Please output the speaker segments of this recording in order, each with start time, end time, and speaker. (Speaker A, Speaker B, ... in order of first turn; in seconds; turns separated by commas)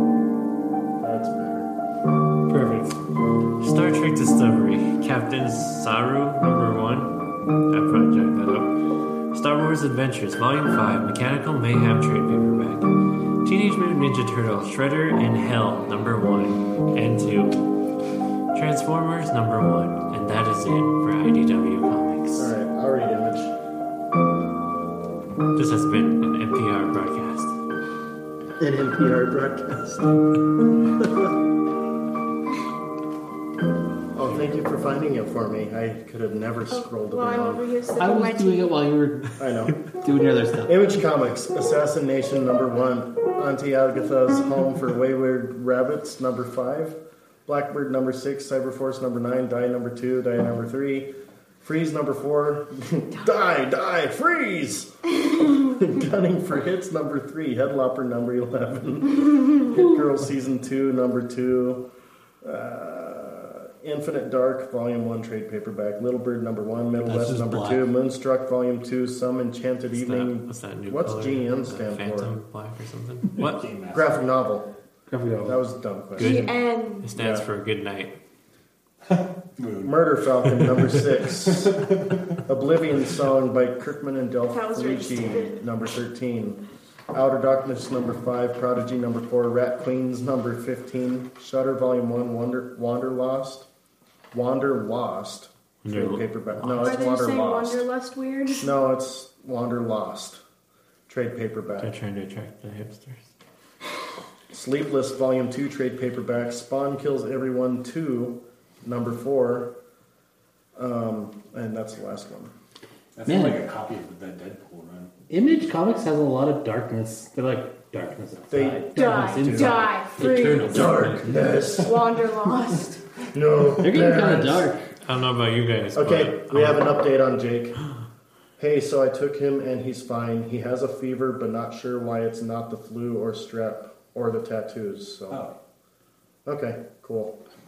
Speaker A: 1.0-1.7, Speaker B: 2.5-3.0, Speaker C: 3.6-17.7, Speaker C: 18.5-22.5, Speaker A: 22.4-23.5, Speaker C: 25.5-27.5, Speaker A: 28.6-30.1, Speaker A: 34.1-37.6, Speaker D: 36.7-38.8, Speaker B: 38.0-40.8, Speaker A: 39.4-39.8, Speaker A: 40.6-61.8, Speaker A: 62.4-72.3, Speaker B: 67.0-67.9, Speaker C: 69.9-73.5, Speaker E: 73.4-74.2, Speaker A: 73.9-74.7, Speaker B: 75.1-75.6, Speaker A: 75.4-76.4, Speaker D: 76.2-77.1, Speaker C: 76.2-78.1, Speaker A: 77.1-77.4, Speaker E: 79.1-82.4, Speaker A: 79.8-81.9, Speaker A: 82.4-86.6, Speaker D: 84.5-85.6, Speaker A: 87.1-93.7, Speaker A: 94.3-97.8, Speaker C: 95.8-96.9, Speaker D: 96.7-98.7, Speaker A: 98.6-100.4, Speaker A: 101.1-101.9, Speaker C: 101.8-103.2, Speaker A: 104.5-109.7, Speaker A: 110.8-112.5, Speaker E: 113.2-115.1, Speaker B: 113.2-113.6, Speaker B: 115.3-121.6, Speaker A: 118.5-119.9, Speaker D: 118.9-120.7, Speaker E: 120.2-121.3, Speaker A: 120.6-122.0, Speaker D: 121.7-123.0, Speaker A: 123.3-124.7, Speaker B: 123.8-124.9, Speaker C: 125.0-127.0, Speaker A: 125.9-127.8, Speaker A: 128.6-135.4, Speaker E: 135.3-135.6, Speaker A: 136.4-137.4